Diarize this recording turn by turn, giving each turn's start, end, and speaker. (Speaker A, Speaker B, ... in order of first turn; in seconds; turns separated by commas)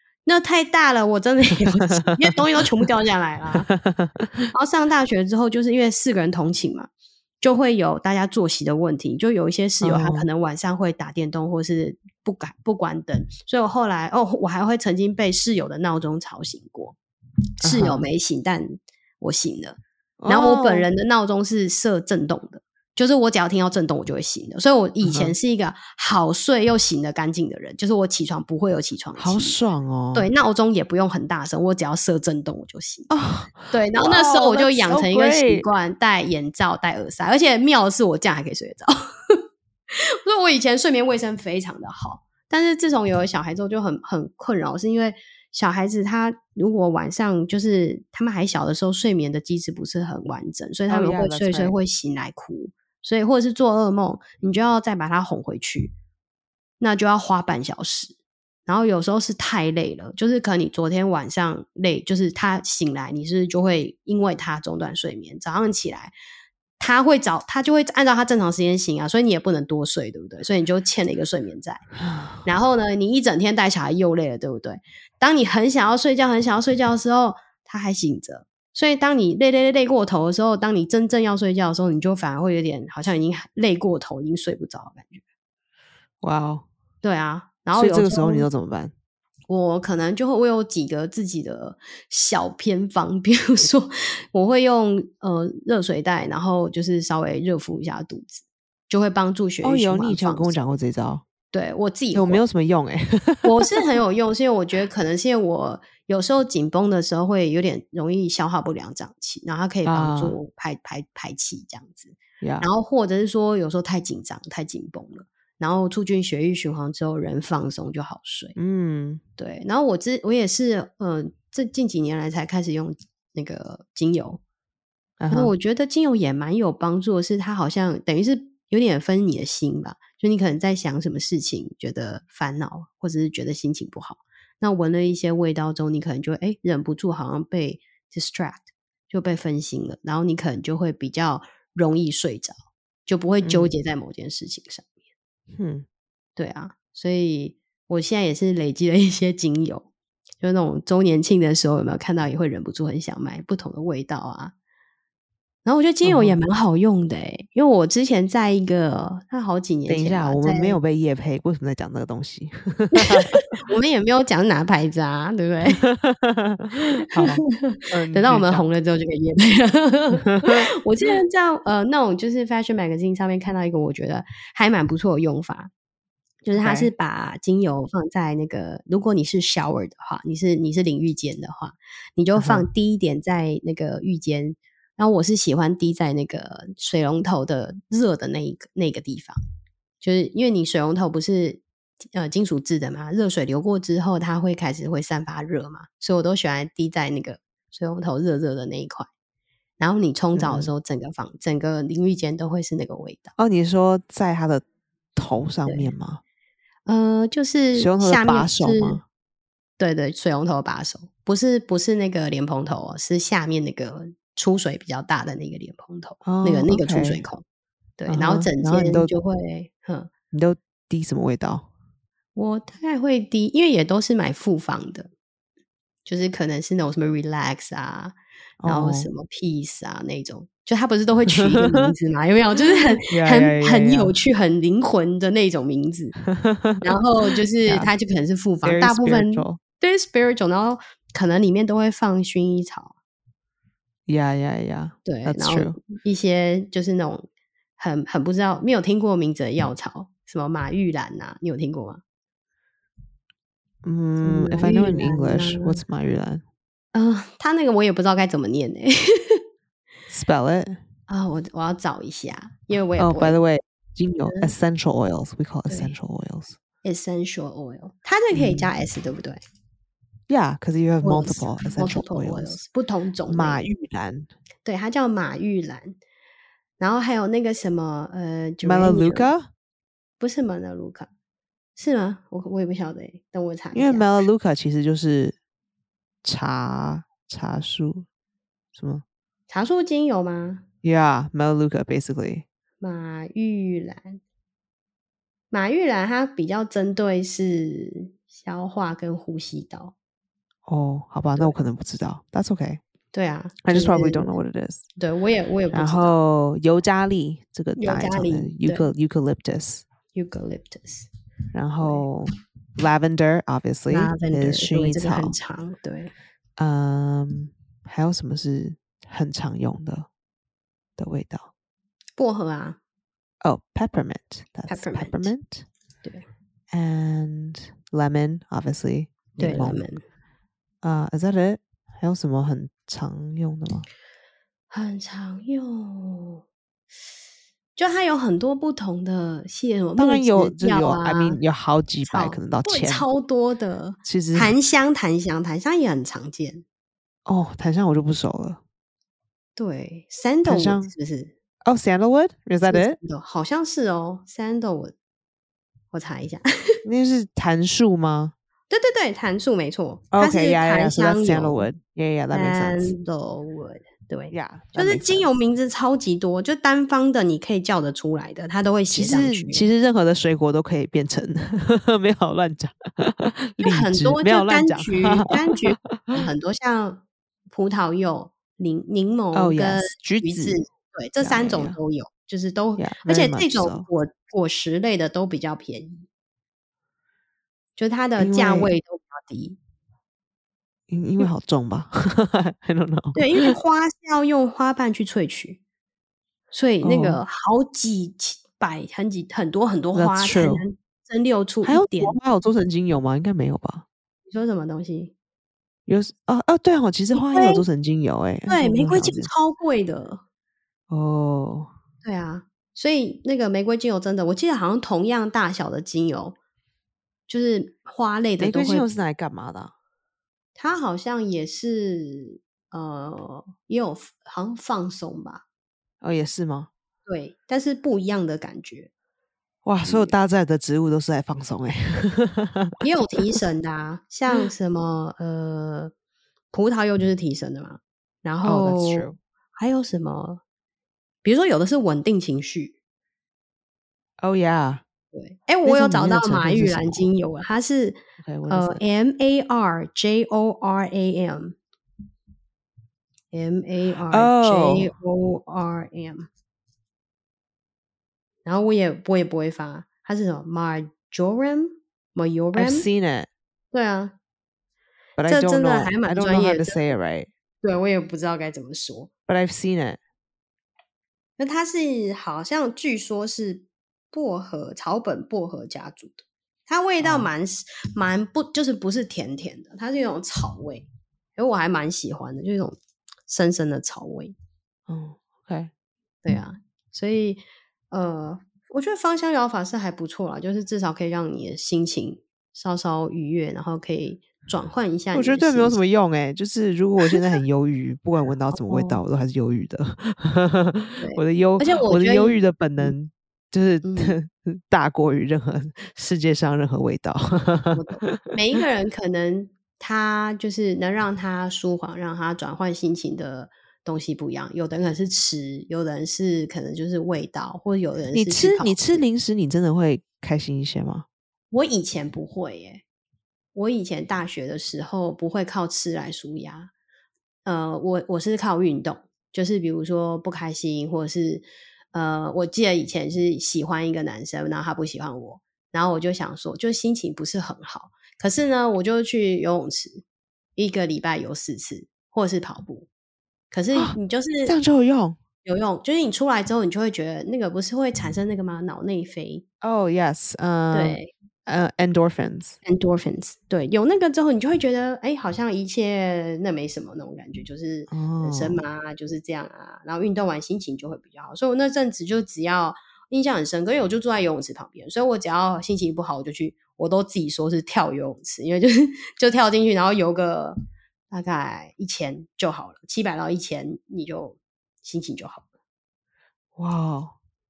Speaker A: 0.3-3.7, Speaker B: 1.8-2.1, Speaker B: 3.7-4.4, Speaker A: 4.5-6.9, Speaker A: 7.4-17.0, Speaker B: 9.8-10.3, Speaker B: 17.6-18.1, Speaker A: 17.6-29.6, Speaker B: 20.2-20.9, Speaker B: 25.0-25.3, Speaker B: 29.2-30.3, Speaker A: 30.1-33.1, Speaker B: 33.1-35.7, Speaker A: 33.7-39.4, Speaker A: 39.9-56.0, Speaker B: 50.9-51.8, Speaker A: 56.8-58.1, Speaker A: 58.7-66.1, Speaker A: 66.8-71.8, Speaker B: 72.0-72.5, Speaker A: 72.5-85.2, Speaker B: 86.2-86.7, Speaker A: 87.0-88.5, Speaker B: 87.8-88.9, Speaker A: 89.5-100.6, Speaker B: 99.6-101.2, Speaker A: 101.5-102.4, Speaker B: 102.1-103.7, Speaker A: 103.4-118.6, Speaker B: 109.9-110.4, Speaker B: 112.4-112.7, Speaker B: 118.6-119.2, Speaker A: 119.4-124.4, Speaker B: 125.2-125.5, Speaker A: 125.3-142.5, Speaker A: 143.1-144.9, Speaker B: 143.4-143.7, Speaker B: 145.6-145.9, Speaker A: 146.4-149.9, Speaker A: 150.4-154.5, Speaker A: 155.7-160.8, Speaker B: 156.0-156.4, Speaker B: 159.9-163.4, Speaker A: 162.9-165.8, Speaker B: 165.8-168.7, Speaker A: 167.1-175.7, Speaker B: 170.3-170.7, Speaker A: 176.4-189.4, Speaker B: 176.6-176.9, Speaker B: 182.4-182.7, Speaker A: 190.0-191.6, Speaker A: 192.1-199.1, Speaker A: 199.8-203.3, Speaker B: 200.4-200.7, Speaker B: 203.4-204.6, Speaker B: 205.2-206.2, Speaker A: 205.7-205.9, Speaker A: 206.9-209.0, Speaker B: 207.7-209.0, Speaker A: 209.8-217.4, Speaker B: 216.2-217.2, Speaker A: 218.0-220.1, Speaker B: 218.1-219.1, Speaker B: 220.3-221.7, Speaker A: 222.3-225.1, Speaker A: 226.1-236.2, Speaker B: 228.6-229.1, Speaker B: 231.5-231.9, Speaker B: 233.1-234.2, Speaker B: 236.2-236.9, Speaker A: 236.8-242.9, Speaker B: 238.6-239.6, Speaker B: 244.1-245.8, Speaker A: 245.1-252.0, Speaker B: 253.8-256.4, Speaker A: 254.2-255.8, Speaker A: 256.9-259.4, Speaker B: 260.1-260.8, Speaker A: 261.1-263.4, Speaker B: 263.0-266.6, Speaker A: 264.2-264.5, Speaker A: 265.7-265.9, Speaker A: 266.8-269.4, Speaker B: 268.3-268.7, Speaker B: 270.3-272.6, Speaker A: 271.0-273.6, Speaker B: 273.3-274.3, Speaker A: 274.6-276.0, Speaker A: 276.8-279.3, Speaker B: 278.6-279.5, Speaker A: 280.2-281.1, Speaker A: 281.8-284.1, Speaker B: 283.7-285.4, Speaker B: 286.2-288.1, Speaker B: 288.8-289.0, Speaker A: 289.5-290.6, Speaker B: 290.8-292.4, Speaker A: 292.8-294.2, Speaker A: 295.5-299.9, Speaker B: 300.7-302.8, Speaker A: 303.1-304.4, Speaker B: 303.6-304.8, Speaker A: 305.0-306.1, Speaker B: 305.7-309.8, Speaker A: 307.8-308.9, Speaker A: 310.1-311.1, Speaker B: 311.5-315.4, Speaker A: 311.8-312.1, Speaker A: 313.9-316.1, Speaker B: 316.6-320.1, Speaker B: 321.0-321.5, Speaker A: 322.2-322.8, Speaker B: 323.4-325.6, Speaker A: 324.7-325.3, Speaker B: 326.7-329.8, Speaker A: 329.4-330.0, Speaker B: 330.8-333.9, Speaker A: 334.7-336.4, Speaker A: 337.8-341.4, Speaker B: 340.0-343.1, Speaker A: 342.1-346.6, Speaker B: 344.1-344.6, Speaker B: 347.3-348.6, Speaker A: 349.6-351.3, Speaker B: 350.4-350.9, Speaker B: 351.6-353.0, Speaker A: 352.7-354.9, Speaker A: 355.9-356.4, Speaker B: 356.9-358.3, Speaker A: 358.7-361.7, Speaker B: 360.1-362.9, Speaker A: 362.3-369.7, Speaker B: 364.3-365.3, Speaker B: 368.9-376.3, Speaker A: 373.6-386.1, Speaker B: 379.3-380.6, Speaker B: 381.2-381.8, Speaker B: 382.8-383.9, Speaker A: 387.8-389.6, Speaker B: 388.2-388.7, Speaker B: 390.9-393.6, Speaker A: 393.1-395.6, Speaker A: 396.5-402.2, Speaker B: 396.8-397.2, Speaker B: 399.9-400.7, Speaker B: 401.6-403.9, Speaker A: 404.3-405.1, Speaker B: 405.9-409.3, Speaker A: 407.1-407.7, Speaker A: 408.5-410.2, Speaker B: 410.9-411.7, Speaker A: 412.0-416.4, Speaker A: 417.3-418.9, Speaker B: 418.4-419.7, Speaker A: 420.6-425.4, Speaker B: 426.0-426.7, Speaker A: 427.1-428.9, Speaker B: 429.6-432.8, Speaker A: 429.9-430.1, Speaker A: 432.8-435.9, Speaker A: 436.5-440.4, Speaker B: 438.4-439.2, Speaker A: 441.2-442.8, Speaker B: 444.2-444.8, Speaker A: 445.1-451.6, Speaker B: 445.6-447.1, Speaker B: 448.2-448.8, Speaker A: 453.3-456.3, Speaker B: 454.1-454.9, Speaker A: 458.4-462.9, Speaker B: 462.6-463.3, Speaker A: 463.7-464.1, Speaker B: 465.2-467.3, Speaker A: 465.2-466.9, Speaker A: 467.6-469.1, Speaker B: 469.3-470.0, Speaker A: 471.4-484.4, Speaker B: 477.0-477.3, Speaker B: 484.9-485.7, Speaker A: 486.2-495.8, Speaker B: 495.1-508.3, Speaker A: 498.5-499.0, Speaker A: 501.0-502.9, Speaker A: 503.8-504.2, Speaker A: 507.7-519.0, Speaker B: 518.1-521.1, Speaker A: 521.5-522.8, Speaker A: 523.5-526.7, Speaker A: 527.5-540.0, Speaker A: 540.6-542.9, Speaker A: 543.5-544.6, Speaker B: 543.7-545.2, Speaker A: 545.4-549.5, Speaker B: 549.6-552.6, Speaker A: 550.7-551.1, Speaker A: 552.6-570.6, Speaker B: 557.9-558.6, Speaker A: 571.1-575.5, Speaker B: 576.6-577.1